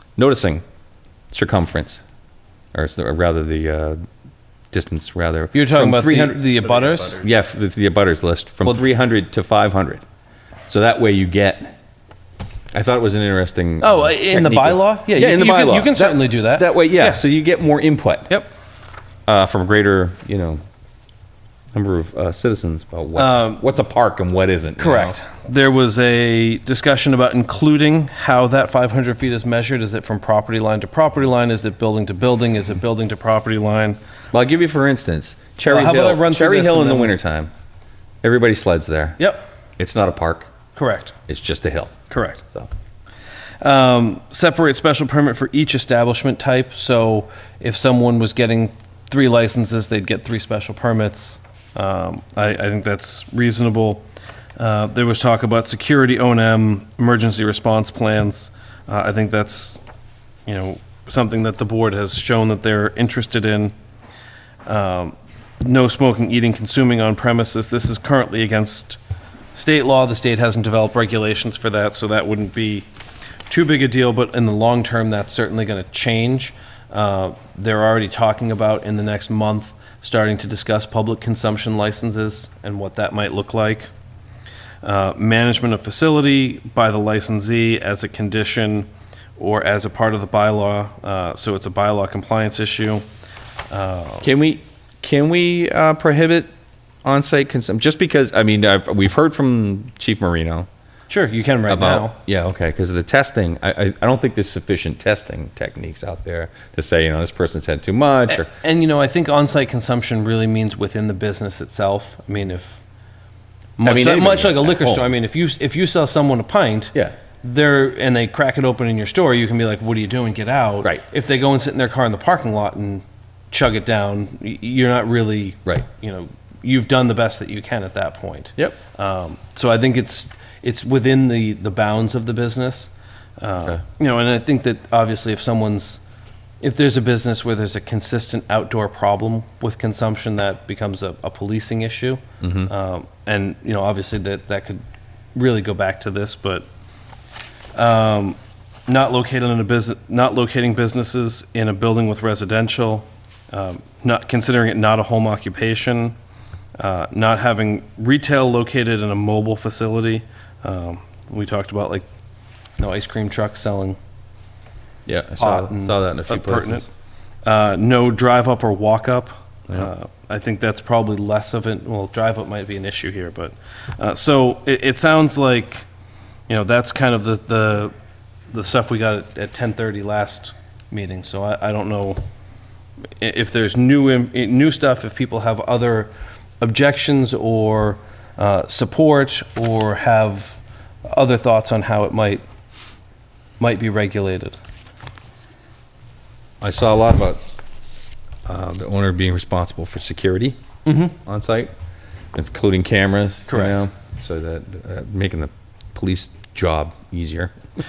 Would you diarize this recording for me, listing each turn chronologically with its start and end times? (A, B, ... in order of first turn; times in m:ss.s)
0:00.2-0:00.6 A
0:01.3-0:02.0 A
0:02.7-0:04.0 A
0:04.7-0:10.0 A
0:05.5-0:07.2 B
0:10.7-0:11.7 A
0:12.7-0:18.3 A
0:13.8-0:17.2 B
0:19.3-0:20.6 A
0:21.7-0:25.2 A
0:23.2-0:23.6 B
0:24.8-0:34.0 B
0:34.3-0:37.5 A
0:35.6-0:37.2 B
0:38.2-0:39.2 A
0:39.8-0:40.5 A
0:40.8-0:41.1 B
0:41.3-0:41.9 A
0:42.1-0:42.4 B
0:43.6-0:54.0 B
0:54.6-0:59.8 B
1:00.5-1:03.7 B
1:04.6-1:09.0 B
1:09.5-1:12.9 B
1:13.5-1:23.9 B
1:24.8-1:33.0 B
1:33.7-1:34.2 B
1:34.2-1:36.5 A
1:37.0-1:40.7 A
1:41.1-1:42.1 B
1:41.7-1:48.5 A
1:48.3-1:52.8 B
1:53.8-2:16.0 B
1:53.8-1:55.1 A
2:16.6-2:24.8 B
2:22.4-2:22.7 A
2:25.3-2:26.7 B
2:27.7-2:36.1 B
2:36.8-2:42.0 B
2:42.8-2:44.0 B
2:45.1-2:46.9 A
2:45.4-2:46.9 B
2:47.4-2:55.8 B
2:56.5-2:57.9 B
2:58.5-3:02.2 B
3:03.2-3:12.4 B
3:13.6-3:14.6 B
3:16.6-3:17.4 A
3:18.4-3:20.6 A
3:20.8-3:21.1 B
3:21.2-3:21.7 A
3:22.3-3:27.5 A
3:23.5-3:23.8 B